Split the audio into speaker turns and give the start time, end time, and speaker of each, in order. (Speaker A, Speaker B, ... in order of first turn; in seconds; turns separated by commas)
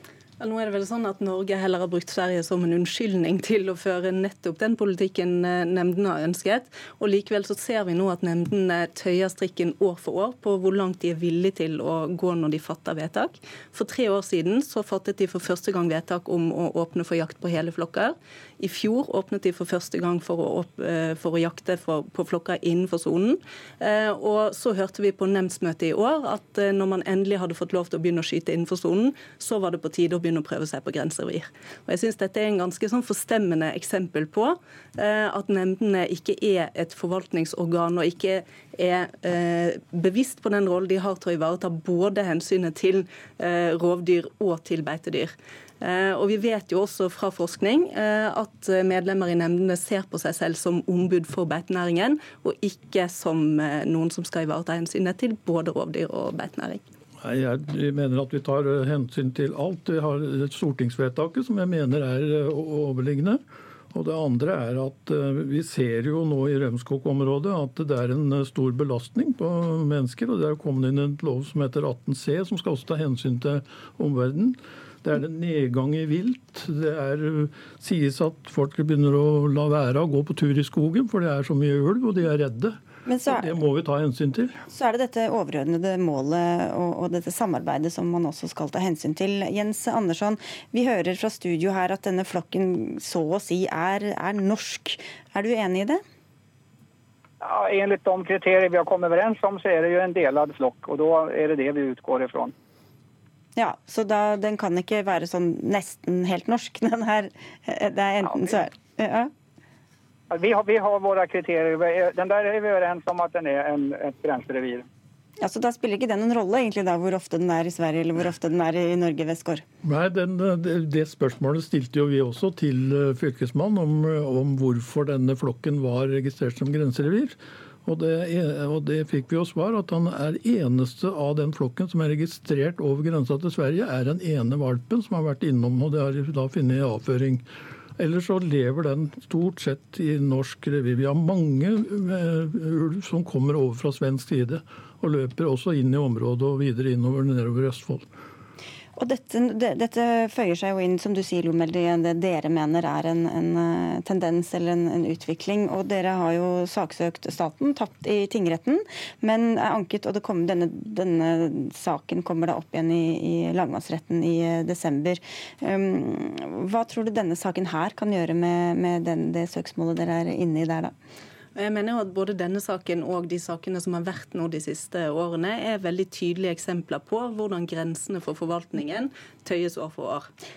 Speaker A: 0.4-56.8, Speaker B: 57.2-63.4, Speaker B: 63.9-82.8, Speaker C: 83.1-83.6, Speaker B: 83.3-84.6, Speaker C: 84.7-96.0, Speaker D: 97.4-102.5, Speaker C: 103.6-109.3, Speaker D: 110.3-114.8, Speaker C: 115.4-119.6, Speaker B: 119.8-137.4, Speaker B: 138.0-148.1, Speaker C: 149.0-170.9, Speaker A: 171.6-180.3